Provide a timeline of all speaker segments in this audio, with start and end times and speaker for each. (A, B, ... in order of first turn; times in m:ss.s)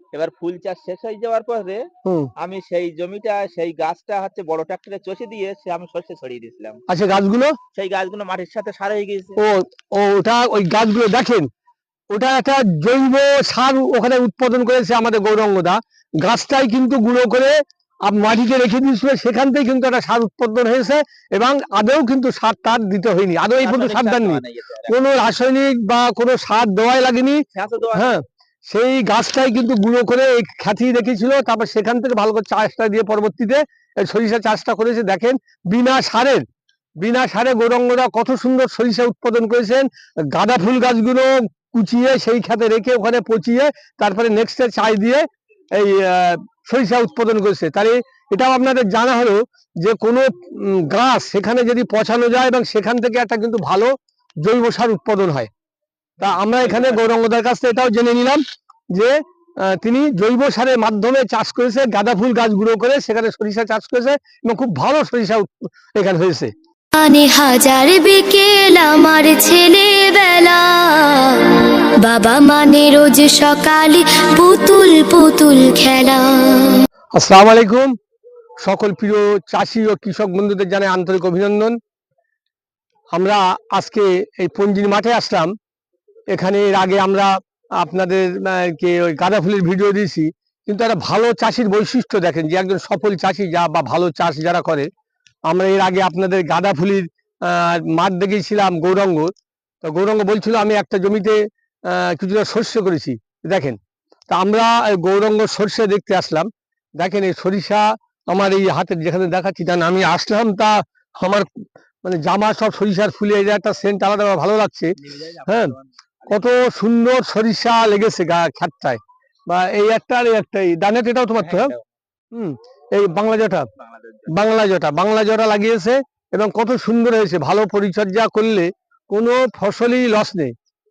0:00.4-0:01.8 A
0:02.6-0:06.7 A
0:06.9-0:07.5 B
0:07.8-0:09.3 A
0:09.4-0:11.5 B
0:12.1-0:17.5 B
0:18.0-0:27.4 B
0:27.9-0:36.4 B
0:37.0-0:45.2 B
0:45.8-0:53.9 B
0:54.4-0:55.5 B
0:56.2-0:58.4 B
0:59.7-1:06.5 B
1:06.9-1:16.8 C
1:17.2-1:17.9 B
1:18.6-1:21.7 B
1:23.1-1:25.5 B
1:26.3-1:34.9 B
1:35.5-1:39.3 B
1:39.8-1:41.3 B
1:41.9-1:43.8 B
1:44.3-1:51.5 B
1:52.0-1:54.9 B
1:55.5-1:55.7 B
1:56.3-2:01.7 B
2:02.3-2:03.6 B
2:04.3-2:10.5 B